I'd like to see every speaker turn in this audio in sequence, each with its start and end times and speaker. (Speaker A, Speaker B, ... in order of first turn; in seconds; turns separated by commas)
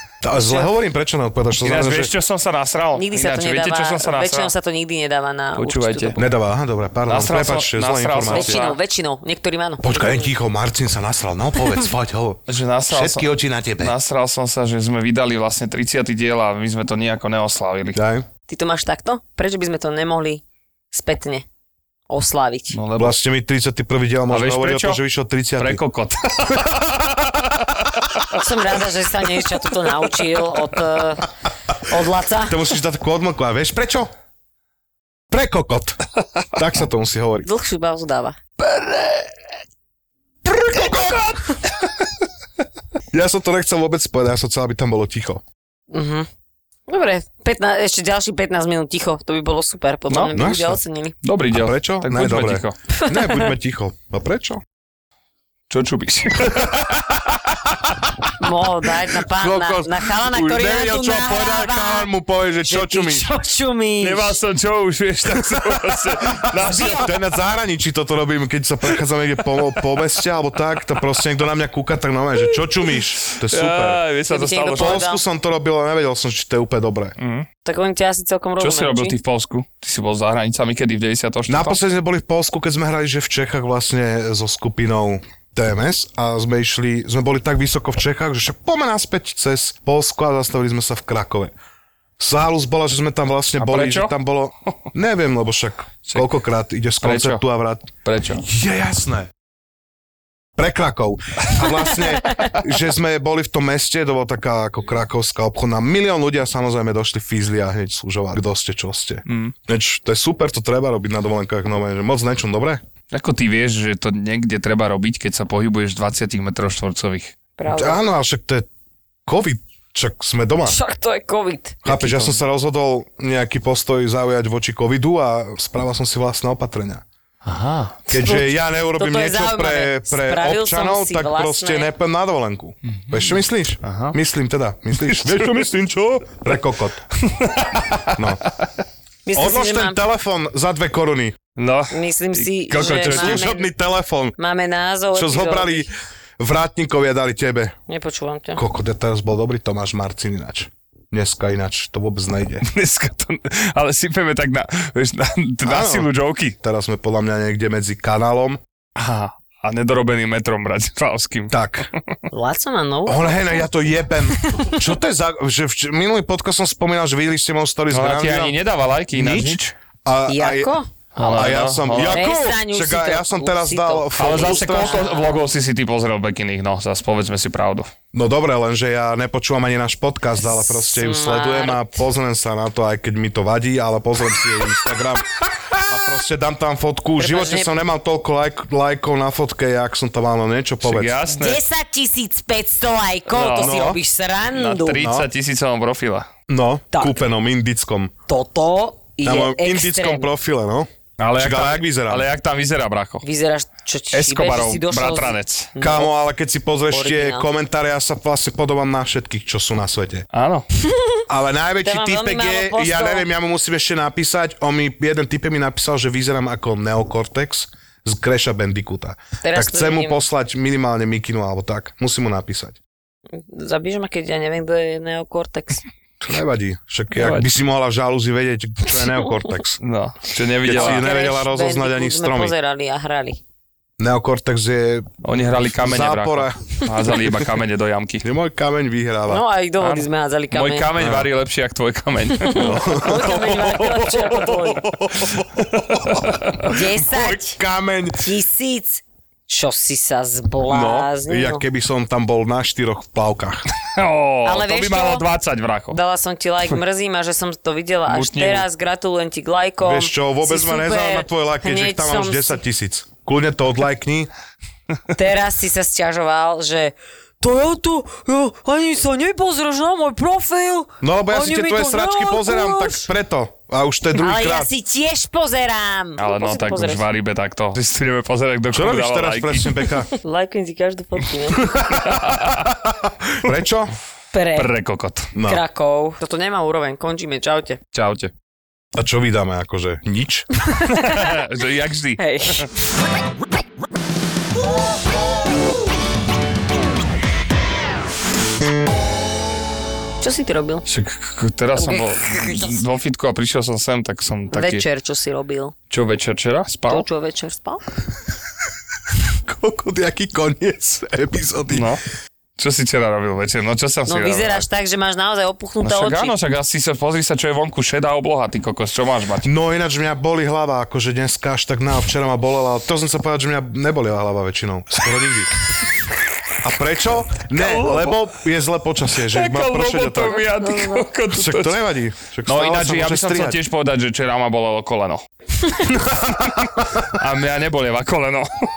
Speaker A: 0.2-2.1, Speaker B: 0.3-0.7, Speaker C: 1.6-4.5, Speaker B: 3.0-6.2, Speaker C: 5.5-6.2, Speaker A: 6.2-8.6, Speaker C: 7.1-8.8, Speaker B: 8.3-10.3, Speaker A: 9.8-13.9, Speaker C: 12.5-13.3, Speaker C: 13.8-18.0, Speaker A: 17.9-18.2, Speaker B: 18.5-21.4, Speaker B: 22.1-22.8, Speaker C: 22.7-23.2, Speaker A: 23.0-25.8, Speaker C: 24.3-25.0, Speaker C: 25.6-28.1, Speaker B: 28.3-31.3, Speaker B: 31.8-32.6, Speaker A: 32.5-34.1, Speaker A: 35.3-36.0, Speaker A: 36.5-37.5, Speaker B: 37.4-38.4, Speaker A: 40.5-41.4, Speaker A: 43.1-45.4, Speaker B: 45.9-46.3, Speaker B: 46.9-51.1, Speaker A: 50.3-50.8, Speaker C: 51.2-52.8, Speaker A: 51.5-54.6, Speaker B: 53.0-53.5, Speaker C: 55.7-57.6, Speaker B: 58.4-62.1, Speaker A: 59.3-63.3, Speaker B: 62.6-64.4, Speaker C: 64.0-67.1, Speaker A: 65.4-74.0, Speaker B: 66.6-66.9, Speaker C: 73.3-75.0, Speaker B: 74.3-75.2, Speaker A: 74.8-77.2, Speaker C: 77.2-77.5, Speaker B: 77.6-79.2, Speaker C: 78.6-81.8, Speaker A: 81.5-91.5, Speaker A: 92.2-99.3, Speaker C: 93.6-94.1, Speaker C: 97.0-97.4, Speaker C: 98.0-98.4, Speaker A: 100.6-112.8, Speaker C: 109.3-109.5, Speaker C: 113.1-117.3, Speaker B: 117.6-118.0, Speaker A: 117.7-118.7, Speaker A: 119.2-120.8, Speaker B: 120.7-121.8, Speaker A: 121.8-127.0, Speaker C: 121.9-122.4, Speaker C: 127.4-128.0, Speaker A: 128.1-137.1, Speaker B: 128.1-131.9, Speaker C: 133.0-134.2, Speaker C: 135.0-135.7, Speaker C: 137.2-138.2, Speaker A: 138.1-138.4, Speaker B: 139.2-140.0, Speaker A: 139.3-141.4, Speaker C: 141.6-143.4, Speaker B: 141.9-143.7, Speaker A: 142.8-144.4, Speaker B: 144.4-145.9, Speaker A: 145.1-147.8, Speaker B: 147.9-148.6, Speaker A: 148.6-152.7, Speaker C: 152.6-156.6, Speaker A: 155.6-158.6, Speaker C: 159.0-161.6, Speaker A: 161.5-161.9, Speaker B: 162.3-163.7, Speaker A: 163.1-168.6, Speaker B: 164.4-164.8, Speaker C: 167.9-169.7, Speaker A: 169.1-175.1, Speaker B: 170.3-175.4, Speaker C: 171.2-172.2, Speaker C: 174.2-177.9, Speaker A: 178.1-191.2, Speaker B: 180.6-182.0, Speaker B: 187.2-187.7, Speaker C: 190.8-191.6, Speaker B: 191.3-195.0, Speaker C: 193.3-193.8, Speaker A: 193.6-194.0, Speaker C: 194.5-196.3, Speaker A: 195.0-195.3, Speaker A: 196.5-198.1, Speaker B: 196.9-197.2, Speaker B: 198.3-200.3, Speaker A: 199.2-202.3, Speaker C: 201.2-203.2, Speaker B: 203.2-206.1, Speaker C: 204.1-205.7, Speaker A: 205.8-210.2, Speaker B: 206.9-207.5, Speaker C: 210.3-210.7, Speaker B: 210.9-211.2, Speaker A: 211.3-222.8, Speaker B: 211.8-213.3, Speaker B: 219.4-220.2, Speaker B: 223.3-225.8, Speaker A: 226.2-229.8, Speaker C: 227.1-227.5, Speaker C: 229.8-231.1, Speaker A: 230.6-232.5, Speaker B: 230.7-233.4, Speaker A: 234.0-235.1, Speaker C: 235.2-238.3, Speaker A: 235.7-236.6, Speaker A: 238.2-239.4, Speaker B: 239.3-240.9, Speaker C: 239.8-243.0, Speaker A: 241.0-241.3, Speaker B: 242.4-244.8, Speaker A: 242.6-246.3, Speaker C: 245.2-246.7, Speaker B: 246.6-247.6, Speaker A: 246.9-248.3, Speaker B: 248.2-251.6, Speaker A: 250.7-253.6, Speaker C: 253.8-256.0, Speaker B: 254.4-255.2, Speaker B: 255.9-262.6, Speaker C: 258.1-258.6, Speaker A: 259.8-264.3, Speaker B: 265.1-273.1, Speaker A: 271.0-274.7, Speaker B: 274.1-277.1, Speaker C: 276.2-279.8, Speaker A: 278.7-280.1, Speaker B: 280.2-281.8, Speaker A: 281.7-282.2, Speaker C: 282.0-282.6, Speaker A: 282.8-283.9, Speaker B: 284.3-284.7, Speaker C: 284.6-285.3, Speaker A: 285.3-285.6, Speaker B: 285.4-287.8, Speaker C: 287.9-288.3, Speaker A: 288.9-290.5, Speaker B: 290.7-291.3, Speaker C: 290.9-292.7, Speaker B: 292.2-292.7, Speaker B: 300.2-300.9, Speaker C: 300.9-304.9, Speaker B: 301.8-302.8, Speaker B: 304.5-305.7, Speaker C: 305.9-307.1, Speaker B: 306.9-307.8, Speaker A: 309.4-311.9, Speaker C: 311.7-312.0, Speaker C: 312.6-314.6, Speaker B: 314.1-316.4, Speaker C: 315.8-319.5, Speaker A: 319.4-325.5, Speaker A: 326.6-330.4, Speaker C: 327.6-328.2, Speaker C: 329.3-331.8, Speaker B: 330.5-331.1, Speaker A: 331.3-333.6, Speaker C: 332.4-335.2, Speaker B: 335.6-335.9, Speaker C: 336.4-338.6